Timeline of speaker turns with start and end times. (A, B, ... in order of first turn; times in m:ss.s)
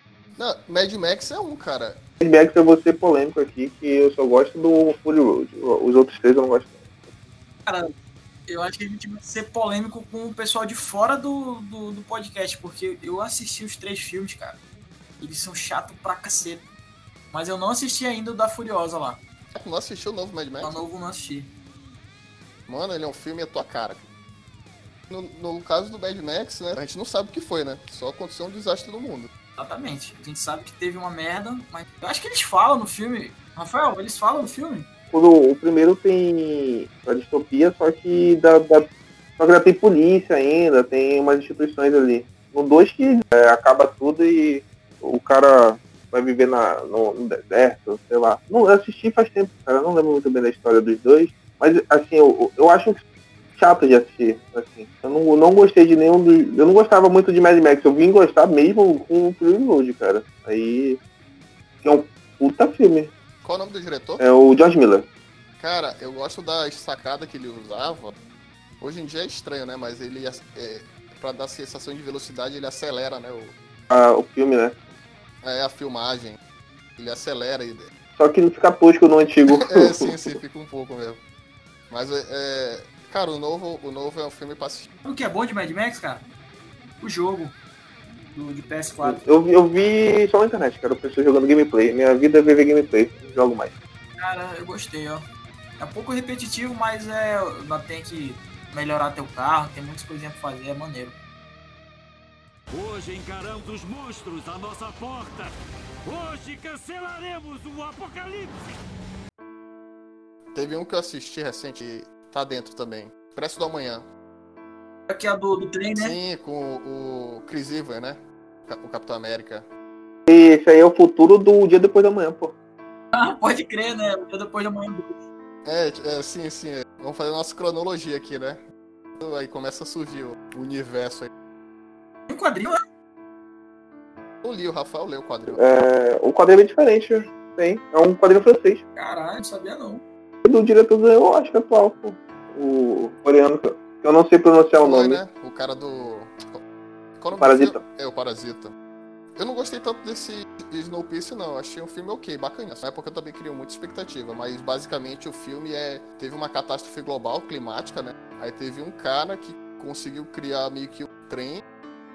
0:00.4-0:02.0 A
0:02.2-0:06.8 B
0:07.6-0:07.9 C
0:08.5-0:14.6 C
0:15.2-0:16.7 C
0:17.3-0:19.2 C
0:19.5-0:20.8 A
0:20.6-0:21.5 C
0:22.7-0:24.0 A
0:25.1-0:29.3 A
0:29.6-0:34.9 C
0:35.1-0:53.0 B
0:53.6-1:01.0 B
1:01.8-1:03.1 B
1:03.4-1:04.2 A
1:04.2-1:05.1 B
1:05.6-1:08.2 A
1:08.8-1:13.5 A
1:13.9-1:14.8 B
1:15.4-1:16.4 A
1:17.0-1:17.9 A
1:18.2-1:20.3 B
1:19.4-1:21.2 A
1:21.9-1:24.9 A
1:25.0-1:26.2 C
1:27.0-1:27.6 C
1:28.3-1:29.2 C
1:29.0-1:33.7 B
1:34.2-1:35.2 C
1:35.8-1:41.2 C
1:42.7-1:48.7 D
1:50.5-1:54.1 A
1:55.1-1:56.2 C
1:56.0-1:59.7 A
2:00.3-2:02.5 B
2:03.1-2:05.2 C
2:05.6-2:08.6 A
2:09.2-2:11.3 A
2:12.3-2:12.8 C
2:14.4-2:15.6 A
2:15.5-2:18.8 B
2:19.0-2:20.0 C
2:20.4-2:25.2 B
2:24.8-2:26.6 A
2:27.2-2:28.7 A
2:27.4-2:27.8 B
2:29.4-2:41.6 A